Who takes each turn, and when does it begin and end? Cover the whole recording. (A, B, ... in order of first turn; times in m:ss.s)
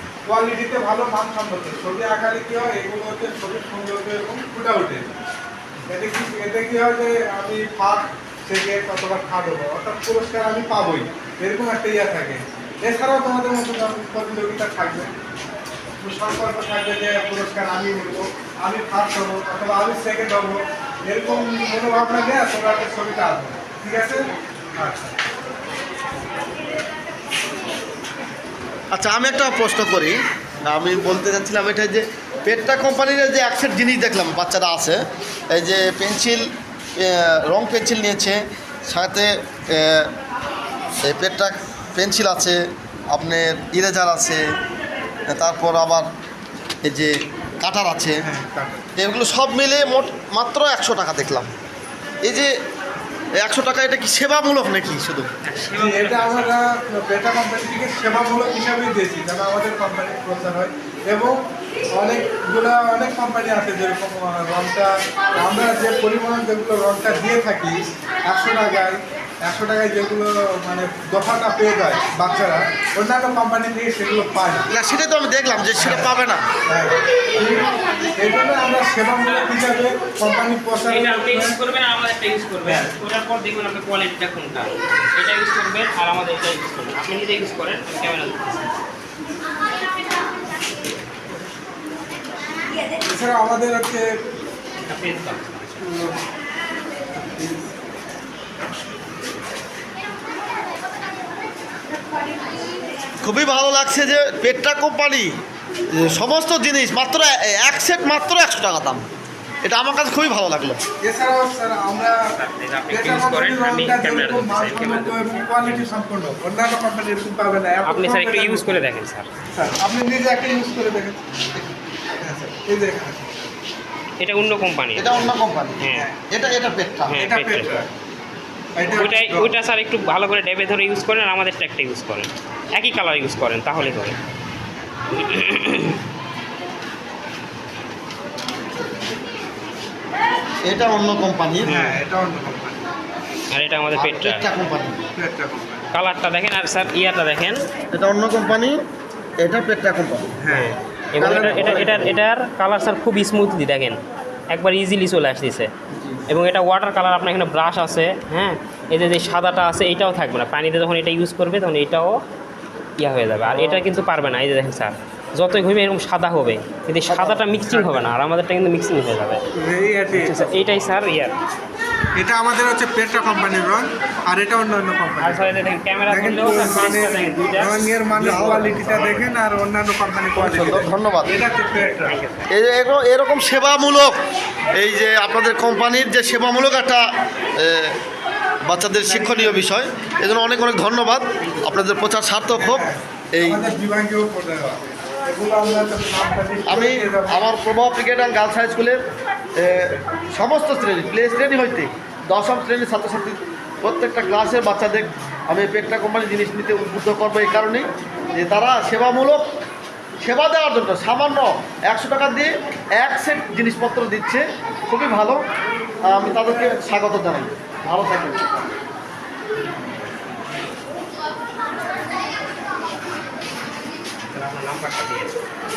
0:00.3-0:05.1 A
0:05.9-0:15.1 A
0:16.0-0:25.2 A
0:28.9-0:35.0 B
0:35.5-0:40.1 B
0:41.0-0:42.6 B
0:43.1-0:44.4 B
0:45.3-0:46.1 B
0:46.8-0:48.2 B
0:48.2-0:48.9 A
0:49.0-0:51.5 B
0:52.2-0:52.5 B
0:53.4-0:55.3 B
0:55.4-0:56.6 C
0:55.7-1:01.4 A
1:01.9-1:14.7 A
1:14.7-1:16.4 B
1:15.8-1:16.1 A
1:16.6-1:21.6 A
1:20.9-1:28.7 C
1:33.0-1:34.1 A
1:34.8-1:35.8 C
1:35.8-1:36.1 A
1:37.2-1:37.7 A
1:43.2-1:45.3 B
1:45.9-1:49.0 B
1:49.6-1:50.8 B
1:51.0-1:52.3 A
1:52.3-1:55.9 C
1:52.9-1:58.7 A
1:57.9-1:59.3 C
1:59.5-2:01.7 A
2:02.2-2:03.4 A
2:04.2-2:06.1 C
2:05.0-2:07.2 B
2:05.9-2:06.2 A
2:07.1-2:07.8 C
2:07.2-2:07.9 A
2:08.8-2:09.5 A
2:08.9-2:14.2 C
2:15.1-2:16.0 C
2:20.6-2:21.7 B
2:21.6-2:22.0 C
2:21.6-2:22.9 A
2:23.5-2:24.5 C
2:23.9-2:25.0 B
2:25.2-2:25.9 A
2:25.9-2:27.6 C
2:27.9-2:28.8 B
2:29.4-2:30.3 B
2:30.4-2:32.2 A
2:30.5-2:34.0 C
2:31.2-2:32.0 B
2:34.5-2:35.7 C
2:36.3-2:42.2 C
2:43.0-2:49.4 C
2:43.5-2:43.8 A
2:47.1-2:47.4 B
2:47.7-2:48.0 A
2:49.6-2:50.4 A
2:50.1-2:51.3 C
2:52.2-3:02.2 A
2:55.2-2:59.2 C
2:58.2-2:58.8 B
3:00.4-3:01.3 B
3:02.0-3:02.5 C
3:02.5-3:04.2 B
3:04.7-3:07.0 B
3:07.5-3:07.9 B
3:08.6-3:13.7 B
3:09.0-3:09.7 A
3:11.4-3:11.6 C
3:12.6-3:17.4 A
3:16.7-3:19.0 B
3:19.6-3:29.4 B
3:19.6-3:20.0 A
3:30.2-3:35.4 B
3:36.1-3:38.7 B
3:44.3-3:45.3 C